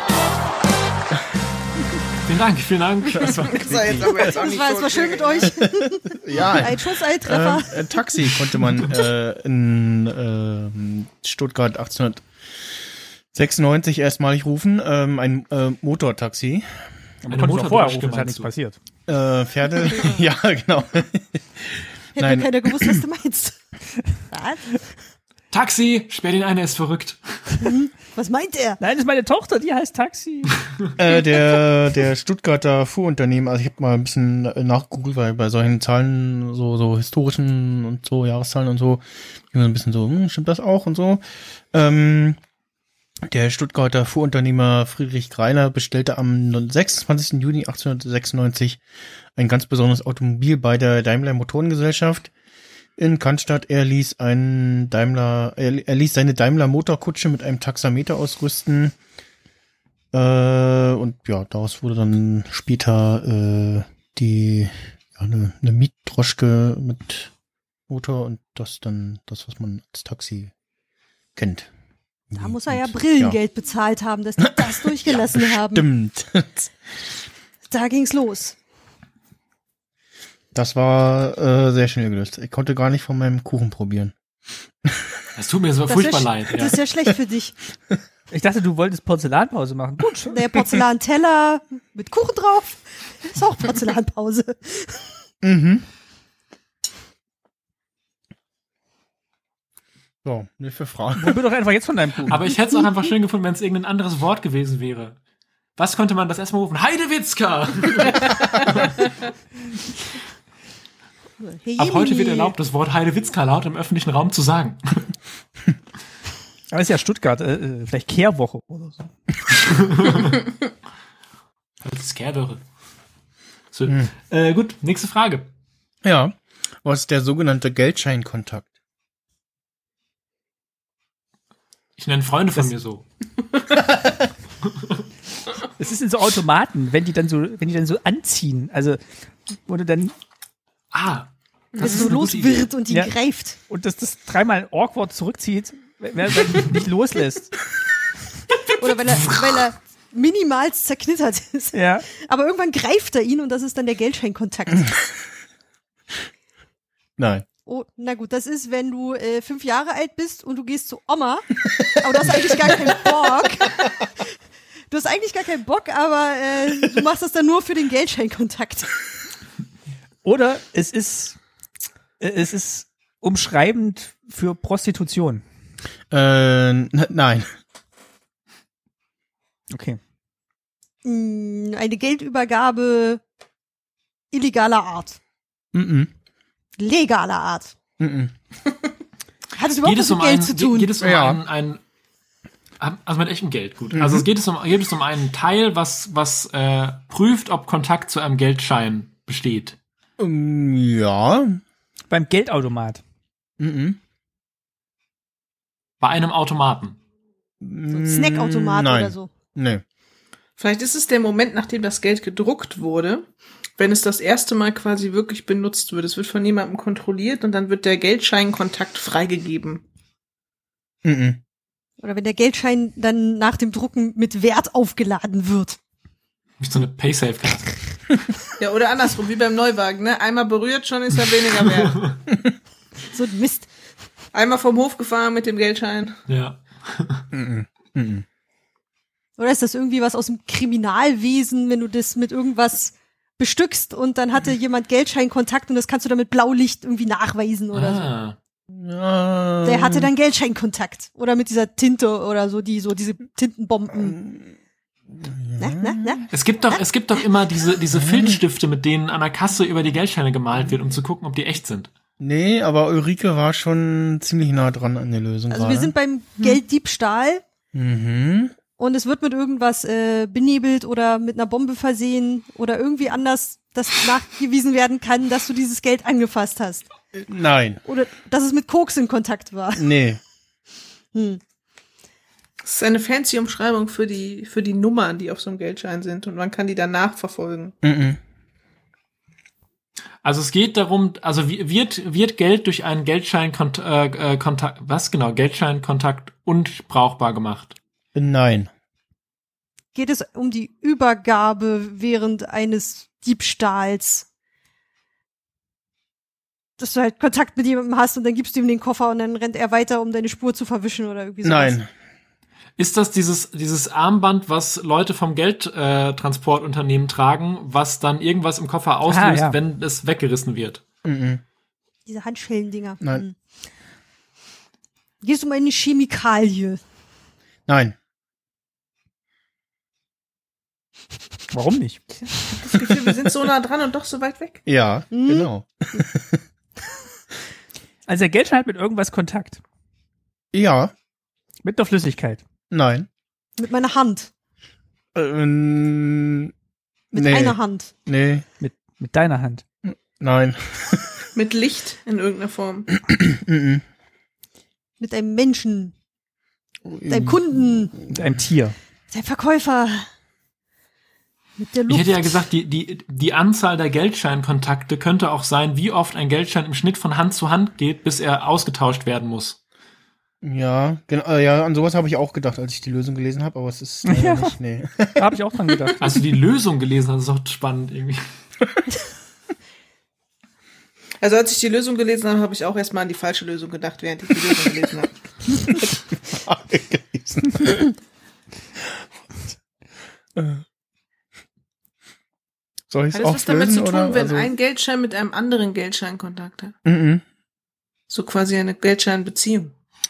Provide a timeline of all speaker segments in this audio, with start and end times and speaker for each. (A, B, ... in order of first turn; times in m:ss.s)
0:02.2-0:04.0 A
0:03.2-0:05.5 B
0:03.6-0:04.3 C
0:04.2-0:07.8 D
0:05.6-0:12.2 C
0:13.3-0:16.7 C
0:17.2-0:18.8 E
0:17.3-0:18.5 A
0:19.1-0:23.0 C
0:22.1-0:23.5 D
0:24.3-0:24.8 D
0:25.5-0:27.5 A
0:27.6-0:28.8 D
0:28.8-0:30.6 E
0:31.0-0:42.4 C
0:43.3-0:48.8 C
0:49.4-0:52.3 C
0:53.0-0:58.9 C
1:00.1-1:07.3 C
1:07.9-1:10.5 C
1:11.4-1:11.7 C
1:12.3-1:13.4 C
1:12.4-1:15.8 D
1:14.4-1:16.7 C
1:17.7-1:18.6 D
1:20.5-1:24.1 C
1:24.8-1:25.2 C
1:25.4-1:26.8 A
1:25.9-1:27.6 D
1:28.3-1:30.4 E
1:30.3-1:35.1 D
1:35.4-1:35.8 C
1:40.2-1:41.4 C
1:41.2-1:42.4 E
1:42.3-1:45.2 A
1:45.8-1:49.1 A
1:51.4-1:52.5 D
1:51.8-1:55.1 A
1:56.7-1:59.1 E
1:59.7-2:00.4 A
2:01.8-2:02.6 A
2:03.7-2:05.5 A
2:06.0-2:08.7 C
2:12.0-2:13.0 A
2:15.8-2:19.0 E
2:19.6-2:20.1 E
2:20.9-2:22.7 A
2:21.7-2:22.0 B
2:21.8-2:23.6 D
2:22.9-2:23.1 E
2:23.7-2:27.5 E
2:28.8-2:35.0 D
2:29.0-2:29.6 A
2:31.7-2:32.0 E
2:37.2-2:37.4 C
2:37.6-2:44.2 D
2:41.8-2:42.3 C
2:44.9-2:48.9 D
2:50.2-2:51.4 E
2:52.2-2:55.4 E
2:56.1-2:57.5 C
2:59.7-3:00.0 E
3:01.0-3:03.2 D
3:04.3-3:05.2 D
3:05.7-3:06.1 C
3:06.8-3:07.7 D
3:08.0-3:08.3 C
3:09.6-3:10.9 D
3:09.8-3:11.8 A
3:11.0-3:11.4 C
3:12.8-3:19.8 A
3:13.9-3:14.2 C
3:20.2-3:21.6 C
3:22.1-3:23.0 E
3:23.6-3:24.0 C
3:26.0-3:27.0 A
3:27.6-3:29.8 C
3:27.9-3:29.3 D
3:30.6-3:39.8 B
3:41.0-3:41.4 C
3:42.0-3:45.8 D
3:46.6-3:47.7 A
3:48.6-3:52.1 B
3:53.1-3:53.7 D
3:54.3-3:56.2 B
3:56.3-3:57.2 A
3:57.3-3:58.2 C
3:59.4-4:08.1 D
4:07.7-4:08.4 A
4:08.7-4:10.1 C
4:09.6-4:14.2 D
4:14.0-4:14.5 C
4:15.1-4:16.2 C
4:15.6-4:16.8 D
4:16.3-4:21.9 A
4:17.9-4:18.4 C
4:22.2-4:25.9 C
4:25.5-4:27.4 D
4:27.7-4:28.5 C
4:28.8-4:36.9 D
4:37.1-4:37.8 C
4:37.8-4:39.9 D
4:39.8-4:40.2 C
4:41.1-4:41.4 D
4:42.6-4:47.7 B
4:47.8-4:48.2 C
4:50.2-4:57.8 A
4:58.1-4:58.7 C
4:59.9-5:04.2 D
5:06.8-5:11.8 D
5:11.4-5:11.9 C
5:12.8-5:20.8 A
5:19.1-5:19.6 E
5:21.0-5:21.4 C
5:22.0-5:23.3 D
5:25.2-5:26.8 D
5:27.7-5:28.0 C
5:31.5-5:32.0 E
5:32.5-5:34.6 B
5:34.6-5:36.4 C
5:35.1-5:36.0 D
5:38.1-5:39.6 E
5:40.5-5:40.9 C
5:41.6-5:42.4 E
5:42.7-5:43.1 C
5:43.6-5:44.3 D
5:45.1-5:46.5 C
5:47.1-5:47.9 D
5:47.1-5:48.4 C
5:48.6-5:49.6 E
5:49.9-5:51.3 C
5:51.3-5:52.9 B
5:53.1-5:53.8 C
5:55.0-5:55.9 D
5:56.8-5:58.3 C
5:57.1-5:57.9 D
5:58.1-5:58.8 E
5:59.1-6:00.1 D
6:01.6-6:02.4 D
6:01.9-6:09.6 A
6:10.4-6:15.3 C
6:14.1-6:14.6 E
6:15.1-6:16.1 E
6:16.0-6:18.2 A
6:21.2-6:25.1 B
6:26.1-6:28.0 C
6:30.3-6:30.6 C
6:32.9-6:34.5 C
6:33.1-6:36.7 B
6:36.8-6:37.2 C
6:38.1-6:39.7 B